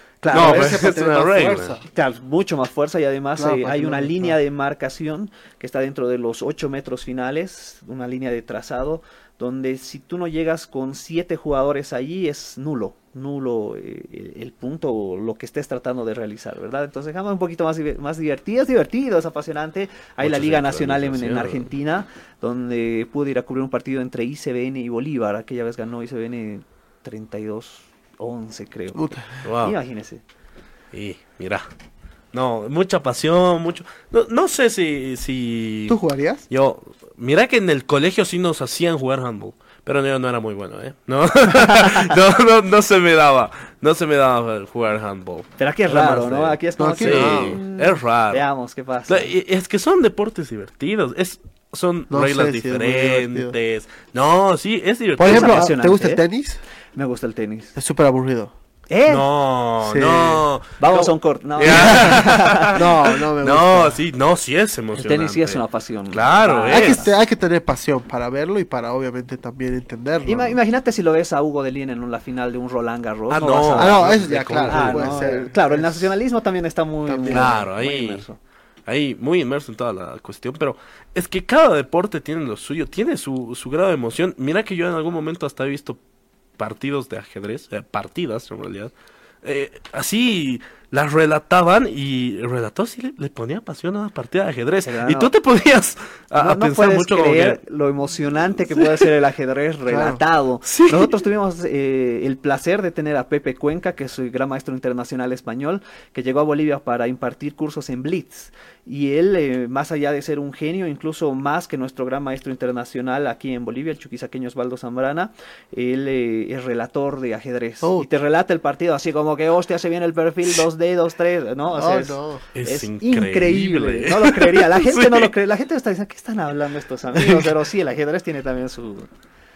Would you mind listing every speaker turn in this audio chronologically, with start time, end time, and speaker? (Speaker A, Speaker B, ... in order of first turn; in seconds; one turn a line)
Speaker A: 0.2-0.9
Speaker B: 0.3-1.8
Speaker C: 0.3-1.8
Speaker A: 1.9-30.2
Speaker B: 3.4-4.4
Speaker C: 20.2-21.7
Speaker B: 28.9-29.4
Speaker C: 29.4-29.8
Speaker C: 30.9-31.7
Speaker C: 32.3-48.5
Speaker B: 35.9-36.5
Speaker A: 45.6-49.3
Speaker B: 46.8-47.6
Speaker C: 49.1-55.7
Speaker B: 52.1-53.5
Speaker B: 55.2-56.6
Speaker A: 55.2-56.2
Speaker A: 57.0-57.8
Speaker B: 57.8-58.5
Speaker A: 58.9-59.2
Speaker C: 59.1-67.0
Speaker B: 59.8-60.5
Speaker A: 60.8-62.8
Speaker B: 61.6-62.2
Speaker B: 62.7-64.0
Speaker A: 65.0-67.1
Speaker B: 66.7-70.6
Speaker A: 70.3-74.1
Speaker C: 73.3-75.3
Speaker B: 73.8-76.1
Speaker A: 74.6-78.4
Speaker B: 77.1-77.6
Speaker C: 77.3-78.3
Speaker C: 78.9-86.0
Speaker C: 86.6-88.9
Speaker C: 89.4-97.6
Speaker A: 94.8-95.3
Speaker A: 96.4-129.1
Speaker C: 98.8-99.0
Speaker B: 99.9-100.2
Speaker C: 100.7-101.2
Speaker B: 117.8-118.1
Speaker B: 121.7-122.5
Speaker C: 122.6-125.3
Speaker B: 127.2-127.5